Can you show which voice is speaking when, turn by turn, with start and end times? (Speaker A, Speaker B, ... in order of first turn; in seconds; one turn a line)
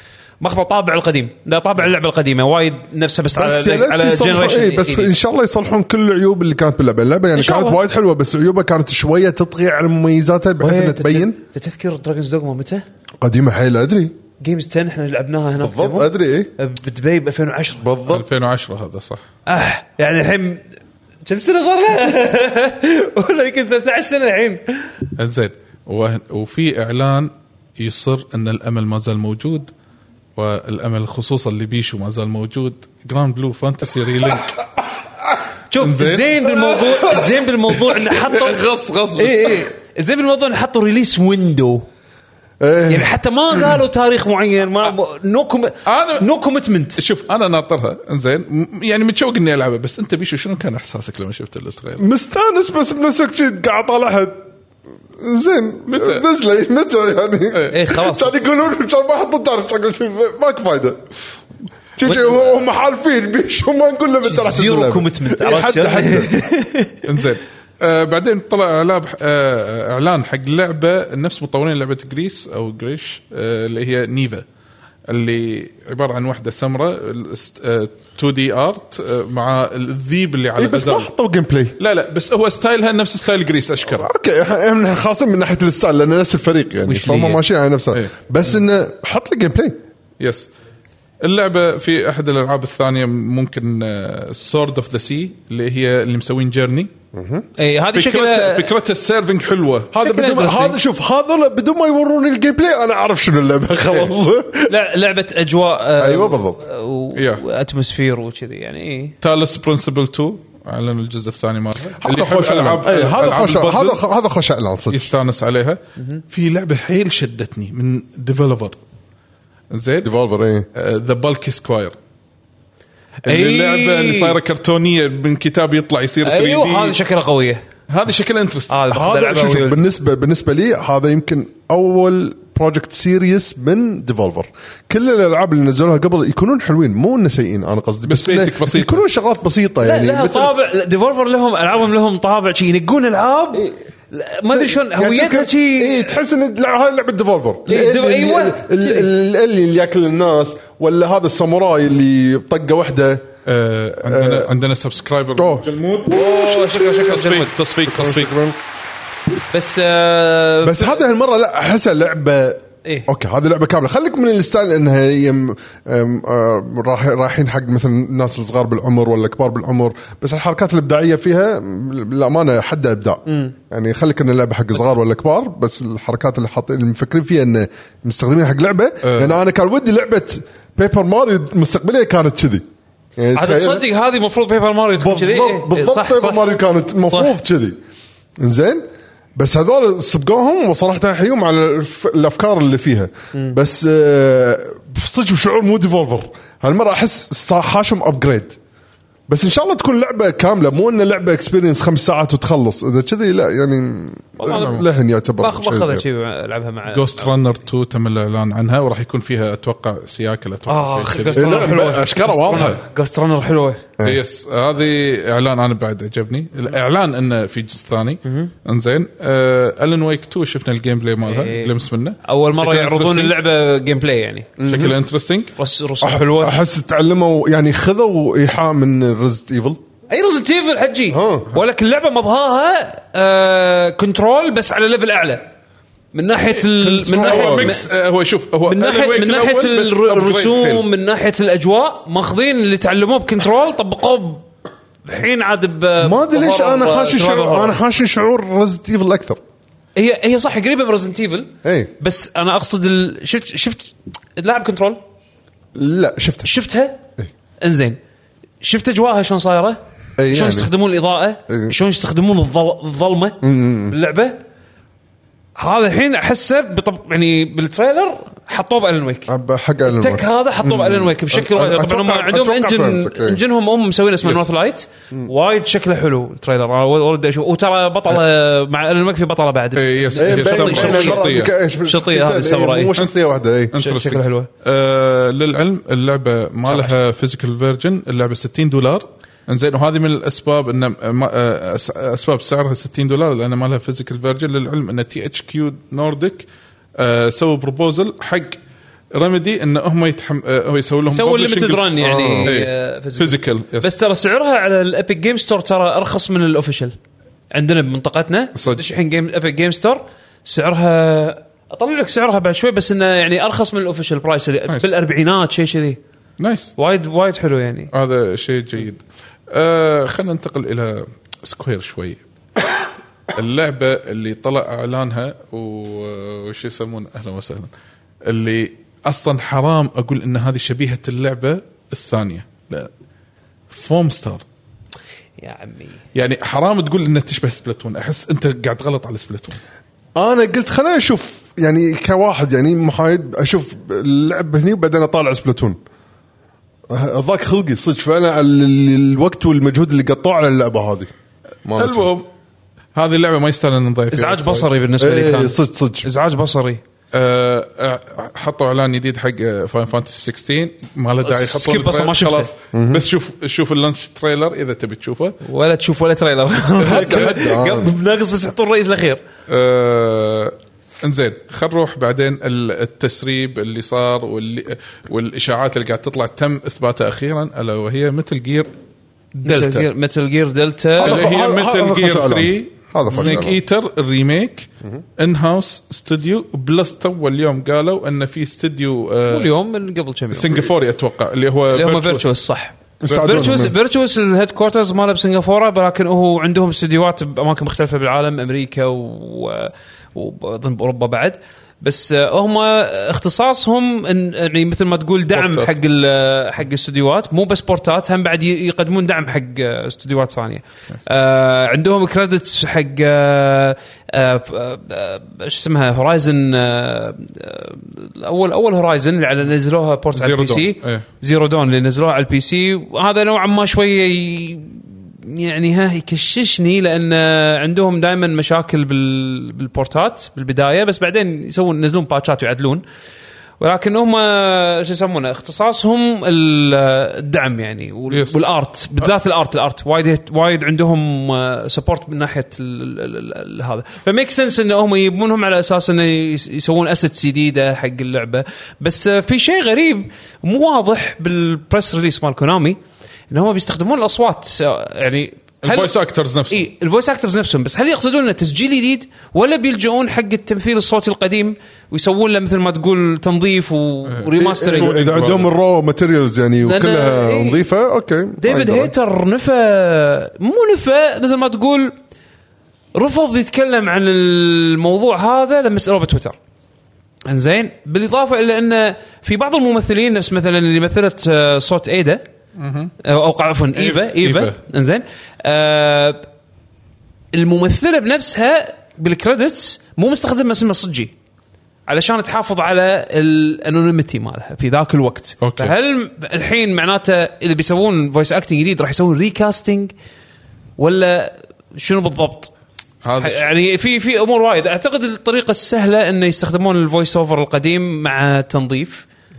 Speaker A: 0.4-5.1
Speaker B: 3.3-11.4
Speaker A: 7.3-7.8
Speaker A: 10.6-12.8
Speaker B: 13.2-14.2
Speaker A: 14.4-17.9
Speaker B: 15.6-16.5
Speaker B: 17.8-18.2
Speaker C: 18.1-19.2
Speaker A: 19.5-20.6
Speaker A: 21.2-24.9
Speaker C: 25.2-29.7
Speaker C: 30.4-35.0
Speaker A: 35.7-38.6
Speaker C: 35.8-39.6
Speaker A: 39.1-41.9
Speaker B: 42.6-43.1
Speaker A: 42.9-47.0
Speaker C: 45.9-46.3
Speaker C: 47.0-52.0
Speaker B: 52.0-54.4
Speaker B: 55.2-61.0
Speaker C: 55.9-56.2
Speaker A: 57.7-58.3
Speaker B: 62.0-66.3
Speaker A: 62.1-62.3
Speaker A: 64.2-67.2
Speaker C: 67.0-74.4
Speaker C: 75.1-81.1
Speaker B: 80.6-81.8
Speaker C: 81.8-84.1
Speaker B: 83.9-89.8
Speaker C: 86.9-87.4
Speaker C: 90.2-90.5
Speaker C: 91.2-96.9
Speaker B: 97.1-97.5
Speaker A: 97.6-98.7
Speaker C: 97.9-99.9
Speaker B: 99.9-104.7
Speaker A: 100.0-100.8
Speaker A: 104.7-109.1
Speaker B: 106.0-106.6
Speaker C: 107.1-107.4
Speaker C: 109.2-114.0
Speaker B: 112.0-115.1
Speaker C: 114.9-118.8
Speaker C: 119.7-120.1
Speaker B: 120.0-120.7
Speaker C: 120.7-121.9
Speaker A: 123.2-124.4
Speaker C: 123.2-127.0
Speaker A: 126.2-127.6
Speaker C: 127.9-128.8
Speaker A: 128.7-129.8
Speaker B: 128.9-140.5
Speaker C: 138.1-139.0
Speaker A: 139.8-146.2
Speaker B: 144.5-153.3
Speaker A: 147.7-149.1
Speaker C: 153.4-158.4
Speaker B: 154.0-154.5
Speaker B: 155.4-155.7
Speaker A: 156.1-157.5
Speaker B: 156.2-157.2
Speaker B: 157.9-158.6
Speaker A: 159.5-161.0
Speaker B: 160.6-182.6
Speaker C: 179.0-179.4
Speaker B: 183.2-183.8
Speaker A: 183.3-186.4
Speaker B: 185.0-187.8
Speaker A: 187.0-187.3
Speaker B: 188.4-188.8
Speaker B: 189.3-198.6
Speaker B: 199.3-206.0
Speaker A: 204.4-207.4
Speaker C: 204.4-204.8
Speaker C: 206.9-212.8
Speaker A: 210.7-213.8
Speaker B: 211.3-212.8
Speaker C: 214.0-223.3
Speaker A: 218.2-218.5
Speaker A: 221.2-221.7
Speaker A: 222.2-224.6
Speaker B: 224.6-224.9
Speaker C: 224.6-225.5
Speaker A: 225.6-226.6
Speaker B: 226.0-229.8
Speaker A: 230.1-235.5
Speaker B: 231.1-231.5
Speaker A: 236.1-237.9
Speaker C: 236.5-240.8
Speaker B: 237.0-237.8
Speaker A: 238.7-244.4
Speaker A: 245.0-247.8
Speaker B: 246.0-249.4
Speaker A: 249.9-255.0
Speaker B: 251.6-251.9
Speaker B: 255.7-256.5
Speaker A: 256.4-257.0
Speaker A: 257.6-258.0
Speaker A: 258.6-264.4
Speaker B: 260.2-260.7
Speaker B: 261.5-261.7
Speaker B: 263.4-263.9
Speaker A: 265.6-269.3
Speaker B: 269.3-273.4
Speaker A: 269.9-281.2
Speaker C: 279.8-281.5
Speaker B: 280.2-283.7
Speaker A: 281.8-283.0
Speaker C: 283.7-296.4
Speaker A: 283.7-284.5
Speaker A: 286.6-286.9
Speaker C: 297.0-298.6
Speaker C: 299.1-303.9
Speaker A: 301.1-306.9
Speaker B: 302.0-302.5
Speaker A: 307.5-316.0
Speaker C: 316.4-316.7
Speaker A: 316.8-317.9
Speaker C: 317.9-322.2
Speaker C: 323.3-327.7
Speaker C: 328.2-332.9
Speaker C: 333.7-334.4
Speaker A: 335.4-336.0
Speaker C: 336.1-339.6
Speaker B: 340.2-345.8
Speaker B: 346.9-351.1
Speaker B: 351.6-352.1
Speaker C: 351.8-352.3
Speaker C: 352.9-354.7
Speaker A: 354.1-356.8
Speaker B: 355.0-356.1
Speaker C: 357.1-365.4
Speaker A: 361.2-362.5
Speaker B: 362.7-363.0
Speaker A: 365.4-369.2
Speaker B: 366.8-367.9
Speaker C: 366.8-367.3
Speaker C: 369.5-378.7
Speaker A: 379.4-381.2
Speaker C: 379.4-379.9
Speaker B: 381.0-383.6
Speaker C: 381.0-389.5
Speaker A: 389.2-390.7
Speaker C: 390.3-392.3
Speaker A: 391.7-432.8
Speaker B: 393.0-393.7
Speaker C: 393.0-393.7
Speaker C: 405.3-405.7
Speaker C: 420.1-421.1
Speaker A: 433.6-452.8
Speaker A: 453.3-455.9
Speaker C: 455.6-456.7
Speaker A: 456.5-465.1
Speaker C: 464.1-465.5
Speaker B: 464.4-468.9
Speaker A: 466.6-467.6
Speaker A: 468.4-471.9
Speaker A: 472.9-476.4
Speaker A: 477.2-482.2
Speaker C: 482.6-482.9
Speaker A: 483.0-486.2
Speaker C: 483.7-484.6
Speaker A: 487.3-491.1
Speaker A: 491.9-499.9
Speaker C: 495.4-495.7
Speaker A: 500.8-502.5
Speaker C: 503.0-503.4
Speaker A: 503.2-509.1